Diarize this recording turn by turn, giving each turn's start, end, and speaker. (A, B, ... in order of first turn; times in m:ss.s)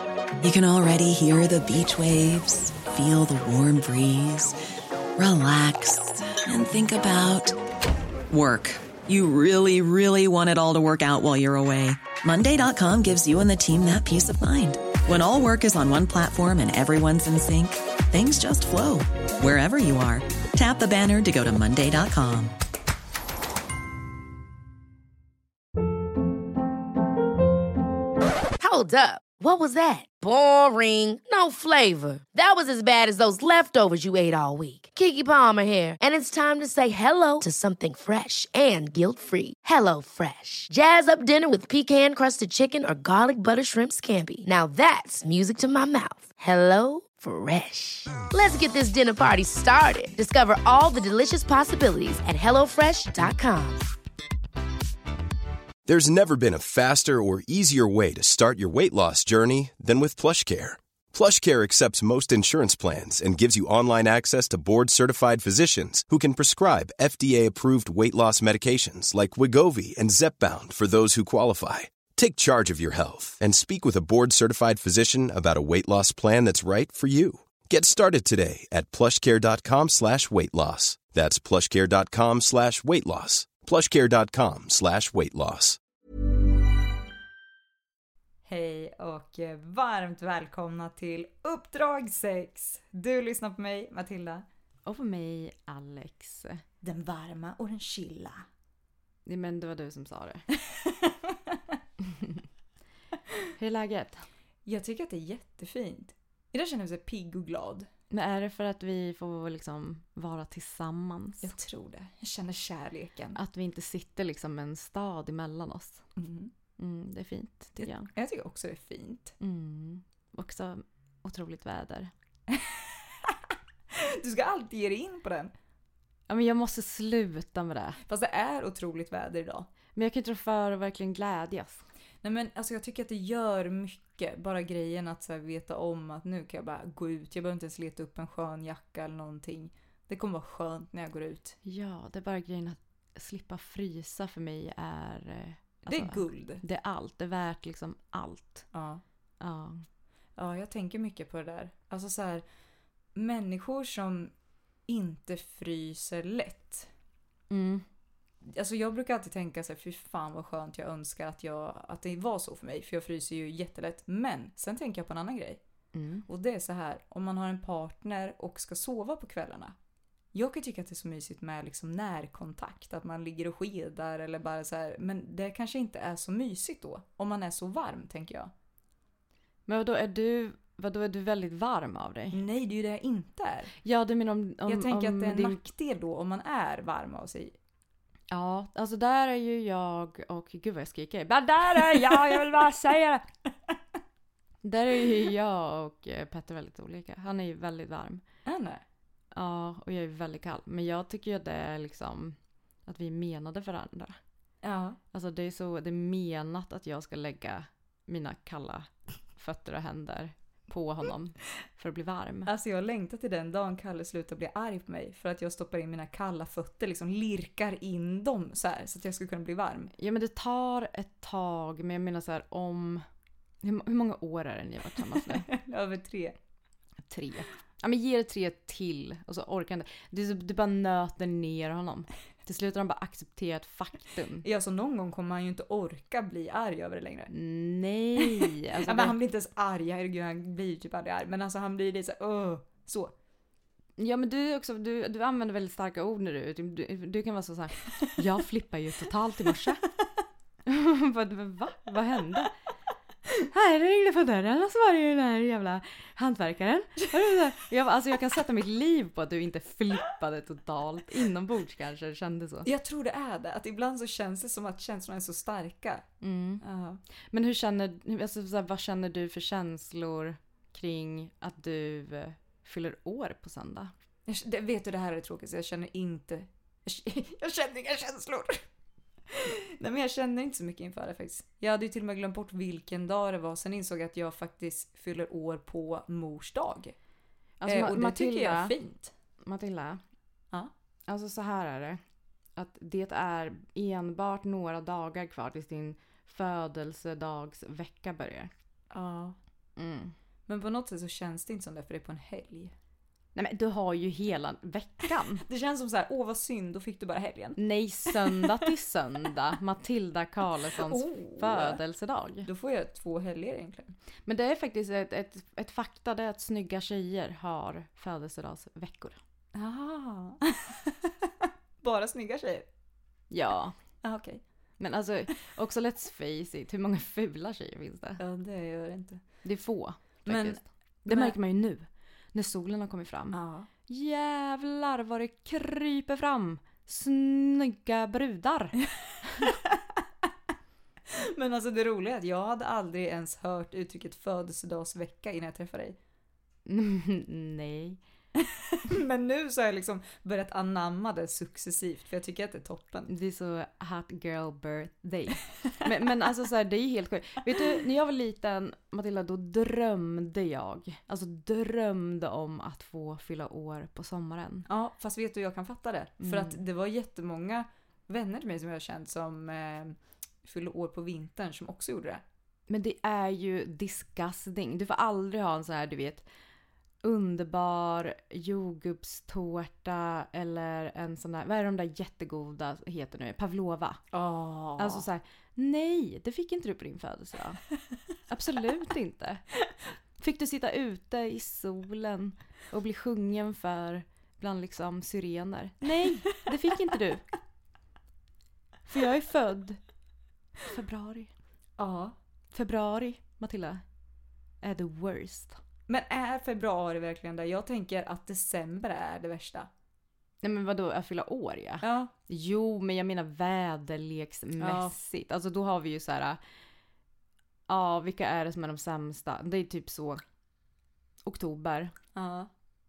0:00.4-0:04.6 A
0:05.2-0:07.6 A
0:08.3-0:22.5 A
0:28.6-0:53.8 B
0:55.9-1:25.8 C
1:28.5-1:34.4 D
1:34.9-1:36.6 E
1:36.8-1:38.4 D
1:39.3-1:40.4 E
1:40.6-1:41.6 D
1:42.0-1:42.5 E
1:43.6-1:44.3 E
1:44.7-1:47.9 D
1:48.1-1:51.6 E
1:51.4-1:53.4 D
1:53.4-1:56.0 E
1:56.2-1:56.5 D
1:56.8-1:58.1 E
1:57.8-1:59.3 D
1:59.4-2:02.1 E
2:02.5-2:03.4 D
2:03.9-2:05.5 D
2:06.3-2:08.0 E
2:08.1-2:09.7 D
2:10.0-2:11.9 E
2:12.2-2:21.6 D
2:21.6-2:28.7 E
2:25.9-2:26.6 D
2:28.7-2:29.0 D
2:29.4-2:29.9 E
2:30.4-2:32.4 D
2:33.2-2:34.3 D
2:34.9-2:36.9 D
2:37.5-2:37.8 E
2:38.4-2:45.6 D
2:45.9-2:46.3 E
2:46.3-2:49.7 D
2:50.3-2:58.5 D
2:59.7-3:02.4 E
3:02.3-3:03.8 D
3:03.8-3:05.6 E
3:04.7-3:07.6 D
3:08.3-3:13.2 E
3:11.7-3:13.2 D
3:14.6-3:18.2 E
3:18.5-3:18.8 D
3:19.3-3:24.2 E
3:24.6-3:25.0 D
3:25.1-3:32.5 E
3:32.5-3:39.9 D
3:40.0-3:43.0 E
3:43.6-3:45.5 E
3:45.2-3:46.4 D
3:47.1-3:54.5 E
3:54.4-3:57.3 D
3:57.3-3:59.2 E
3:58.2-4:03.1 D
4:04.0-4:09.8 E
4:10.7-4:12.5 E
4:13.5-4:22.7 E
4:22.6-4:26.1 D
4:26.2-4:26.6 E
4:26.6-4:27.0 D
4:27.3-4:33.9 E
4:34.3-4:38.6 D
4:39.3-4:47.0 D
4:47.6-4:48.7 E
4:47.7-4:49.1 D
4:49.4-4:50.0 E
4:51.1-4:52.0 E
4:52.6-4:58.5 E
4:58.9-4:59.4 D
4:59.8-5:00.2 E
5:00.5-5:02.7 D
5:03.4-5:05.4 E
5:05.5-5:08.7 D
5:07.6-5:12.5 E
5:10.8-5:11.8 D
5:12.4-5:14.0 D
5:14.3-5:19.2 E
5:19.6-5:22.7 D
5:23.3-5:23.8 E
5:24.0-5:24.4 D
5:24.8-5:28.2 E
5:28.2-5:29.2 D
5:29.4-5:39.6 E
5:30.3-5:31.4 D
5:33.3-5:33.7 D
5:39.4-5:39.8 D
5:41.1-5:46.0 D
5:46.7-5:48.0 E
5:48.4-5:53.1 D
5:53.1-6:04.7 E
6:04.7-6:12.2 D
6:06.2-6:06.6 E
6:12.7-6:16.3 E
6:17.0-6:24.0 E
6:24.1-6:25.1 D
6:24.8-6:27.6 E
6:28.3-6:29.4 E
6:30.2-6:37.3 E
6:38.9-6:39.8 E
6:40.7-6:41.3 E
6:41.8-6:42.2 D
6:42.5-6:43.8 E
6:44.6-6:45.6 E
6:45.9-6:49.7 D
6:50.4-6:56.4 E
6:51.8-6:52.1 D
6:54.6-6:54.9 D
6:57.7-7:00.2 E
7:01.2-7:01.9 E
7:02.2-7:02.5 D